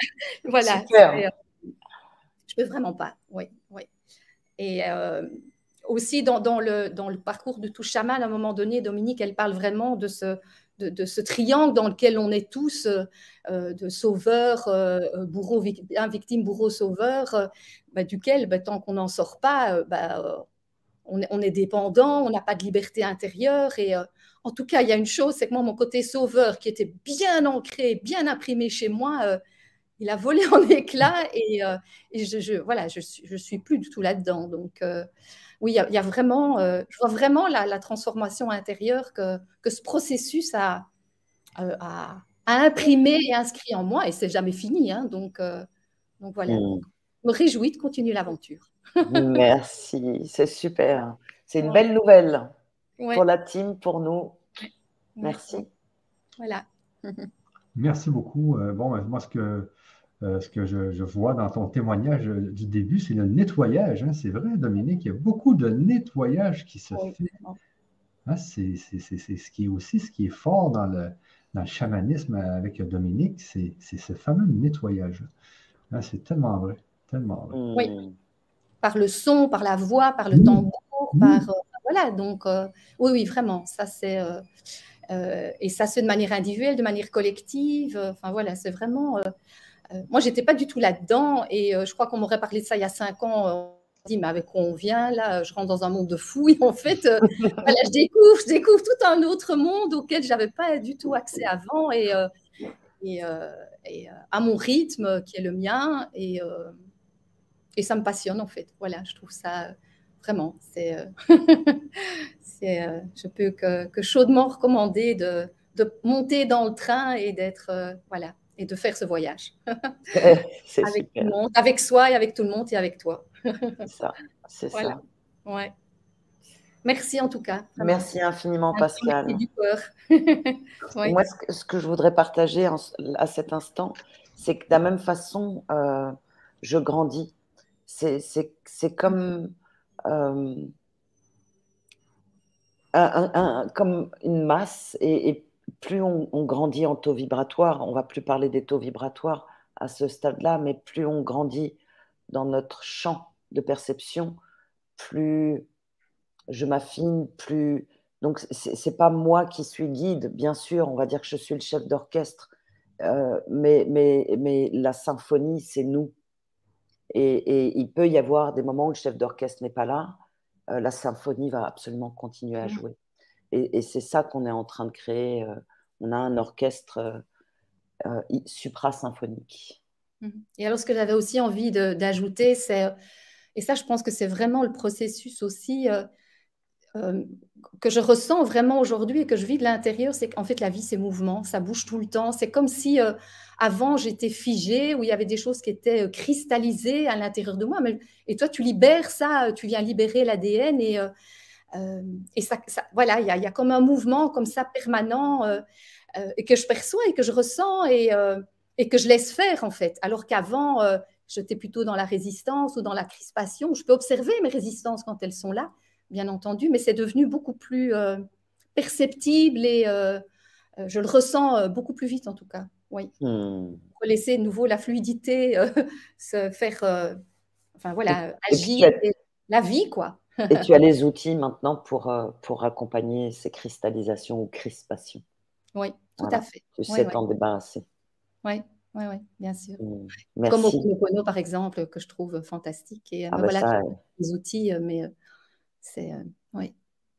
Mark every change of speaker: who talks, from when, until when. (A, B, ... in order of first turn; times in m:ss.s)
0:00.5-0:01.3 A
0:00.6-0:01.2 B
0:02.5-0:03.9 A
0:04.6-0:05.3 A
0:05.8-0:20.5 A
0:21.1-0:29.4 A
0:30.0-0:35.1 A
0:35.6-0:40.9 A
0:41.6-0:45.7 A
0:46.2-0:49.4 A
0:46.5-0:46.8 B
0:49.0-0:52.5 B
0:53.1-0:54.4 B
0:55.2-0:55.6 A
0:55.2-0:55.7 B
0:56.4-0:57.3 A
0:57.8-1:07.3 C
1:08.3-1:15.3 C
1:15.9-1:17.6 C
1:17.5-1:18.2 B
1:18.8-1:24.4 A
1:20.3-1:20.6 C
1:21.2-1:21.4 C
1:25.1-1:29.3 A
1:29.9-1:42.3 A
1:43.0-1:46.8 A
1:47.8-2:00.3 A
2:00.1-2:01.3 B
2:00.8-2:03.8 A
2:03.9-2:05.0 B
2:04.7-2:05.7 A
2:06.8-2:08.1 A
2:07.8-2:09.4 B
2:08.7-2:11.2 A
2:11.0-2:17.3 B
2:17.9-2:19.5 B
2:20.1-2:20.7 B
2:22.9-2:31.8 B
2:32.3-2:34.4 B
2:35.0-2:35.7 B
2:36.5-2:42.5 B
2:43.0-2:46.1 B
2:47.1-2:50.2 B
2:50.7-2:53.0 B
2:53.5-2:57.2 B
2:58.0-2:59.8 B
3:00.2-3:02.9 A
3:03.6-3:06.1 A
3:07.0-3:07.3 A
3:07.8-3:21.1 A
3:21.7-3:25.6 A
3:26.2-3:38.2 A
3:38.8-3:40.2 A
3:40.8-3:43.1 A
3:43.2-3:43.8 B
3:44.0-3:47.2 A
3:47.8-3:50.6 A
3:48.1-3:49.0 B
3:50.5-3:55.2 B
3:55.8-3:57.2 A
3:56.2-3:57.8 B
3:58.4-3:59.8 A
3:59.8-4:00.9 B
4:00.5-4:05.1 A
4:03.3-4:04.0 B
4:05.8-4:06.7 A